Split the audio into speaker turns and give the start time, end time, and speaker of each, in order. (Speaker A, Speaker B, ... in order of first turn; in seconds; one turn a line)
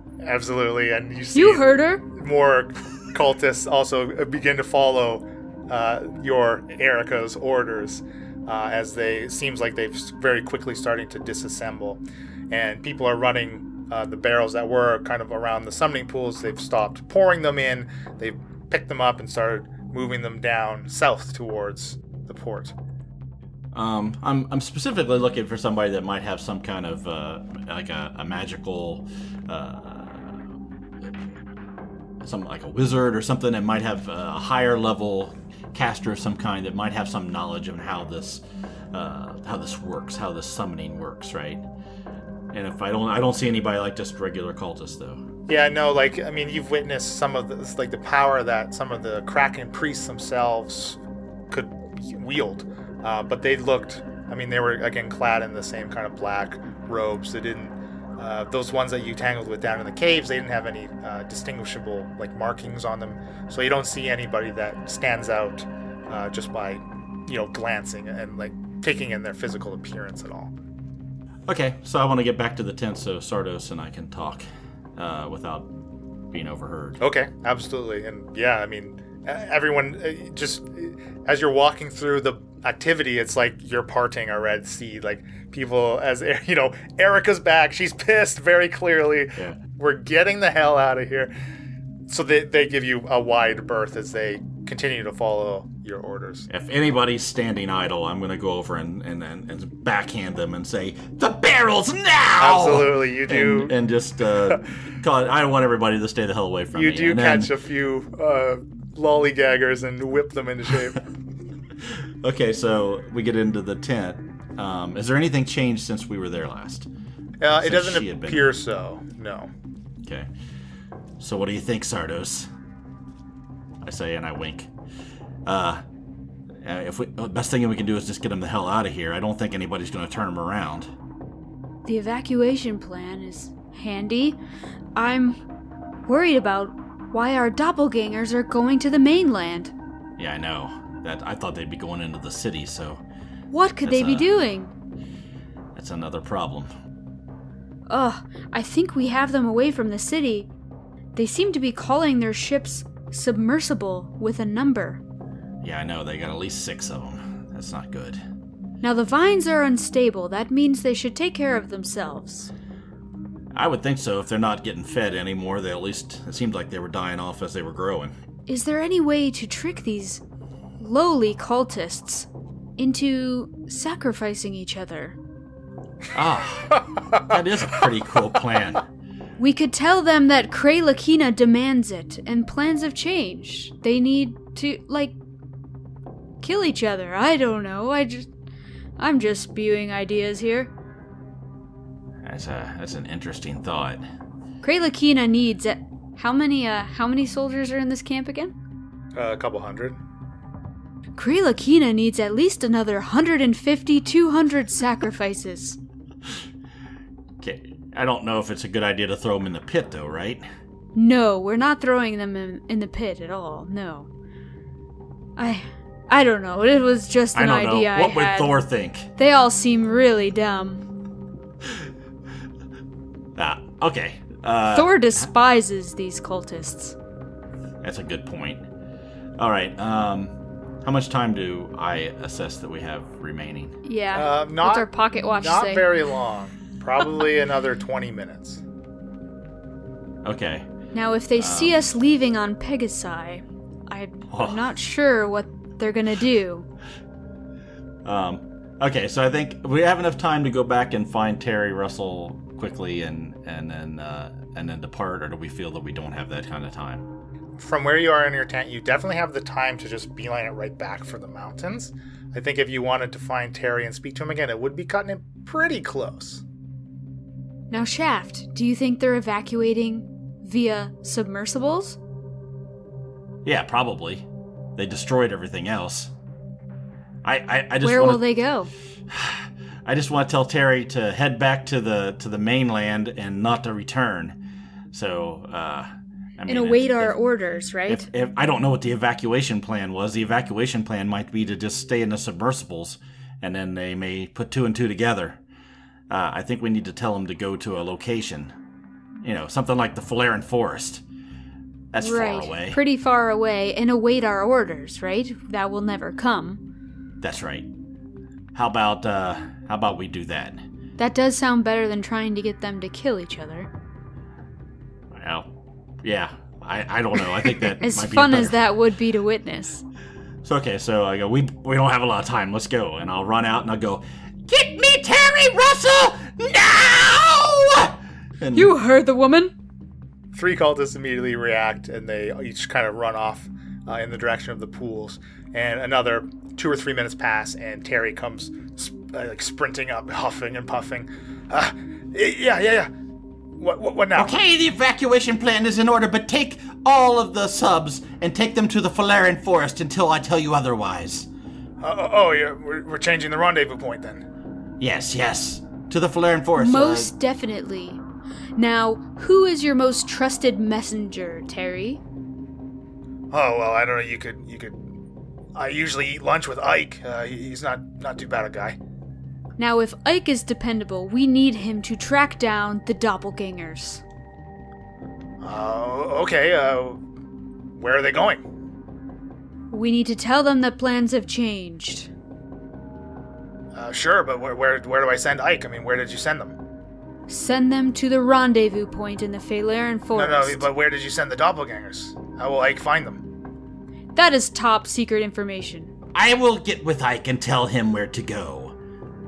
Speaker A: 0.2-22.8
Speaker B: 1.4-2.0
Speaker C: 23.7-30.4
Speaker C: 32.2-41.6
Speaker C: 42.5-45.2
Speaker A: 45.5-51.0
Speaker A: 51.5-70.5
Speaker C: 71.5-75.7
Speaker C: 76.3-77.0
Speaker A: 77.0-91.3
Speaker A: 92.1-96.5
Speaker C: 96.5-107.5
Speaker A: 102.4-103.8
Speaker A: 106.7-111.1
Speaker C: 111.8-116.9
Speaker A: 117.4-119.5
Speaker C: 117.6-118.5
Speaker C: 120.0-120.3
Speaker C: 121.2-122.5
Speaker C: 123.8-124.7
Speaker C: 125.5-125.8
Speaker C: 126.6-130.9
Speaker B: 131.8-134.4
Speaker B: 135.0-135.4
Speaker B: 136.1-139.7
Speaker C: 140.2-143.0
Speaker B: 143.5-144.7
Speaker C: 143.8-144.3
Speaker C: 145.8-146.7
Speaker B: 147.9-150.5
Speaker B: 151.1-155.0
Speaker C: 155.6-158.2
Speaker B: 158.8-162.5
Speaker C: 163.5-168.2
Speaker B: 168.5-170.2
Speaker B: 170.8-172.3
Speaker B: 172.8-175.2
Speaker C: 176.2-176.7
Speaker A: 176.7-177.3
Speaker C: 177.2-178.9
Speaker B: 179.4-185.2
Speaker B: 186.4-188.3
Speaker B: 189.0-190.7
Speaker C: 192.2-194.0
Speaker B: 194.6-198.6
Speaker A: 199.2-200.0
Speaker B: 201.2-205.8
Speaker C: 207.4-210.4
Speaker B: 210.9-214.1
Speaker B: 215.4-218.7
Speaker C: 217.3-219.1
Speaker B: 219.2-220.9
Speaker C: 223.3-225.3
Speaker B: 224.7-227.0
Speaker C: 227.8-228.7
Speaker C: 229.4-233.8
Speaker B: 233.8-235.9
Speaker A: 234.1-238.6
Speaker C: 240.2-240.7
Speaker B: 240.9-246.7
Speaker C: 241.4-241.8
Speaker C: 244.3-244.6
Speaker C: 248.1-257.1
Speaker A: 257.6-266.4
Speaker B: 267.7-272.0
Speaker C: 273.4-276.1
Speaker C: 277.2-278.2
Speaker B: 277.8-278.7
Speaker C: 279.1-284.4
Speaker C: 284.9-287.2
Speaker B: 286.5-288.1
Speaker C: 287.9-295.4
Speaker C: 296.1-298.6
Speaker C: 299.2-301.0
Speaker C: 301.9-302.8
Speaker B: 302.0-306.6
Speaker C: 307.2-307.7
Speaker C: 308.5-310.6
Speaker B: 311.0-313.7
Speaker C: 315.1-315.5
Speaker C: 316.0-318.6
Speaker B: 317.8-319.8
Speaker C: 320.4-328.7
Speaker B: 328.5-329.5
Speaker A: 330.3-342.9
Speaker A: 343.6-344.3
Speaker C: 344.1-351.3
Speaker A: 351.8-354.2
Speaker C: 354.8-357.1
Speaker B: 356.6-358.0
Speaker B: 358.6-362.0
Speaker A: 363.3-364.8
Speaker A: 365.6-368.8
Speaker B: 369.6-374.0
Speaker A: 375.4-377.0
Speaker A: 377.7-378.5
Speaker B: 379.7-382.1
Speaker A: 383.7-386.6
Speaker B: 387.3-390.7
Speaker A: 390.1-393.2
Speaker B: 394.1-395.9
Speaker C: 396.1-398.8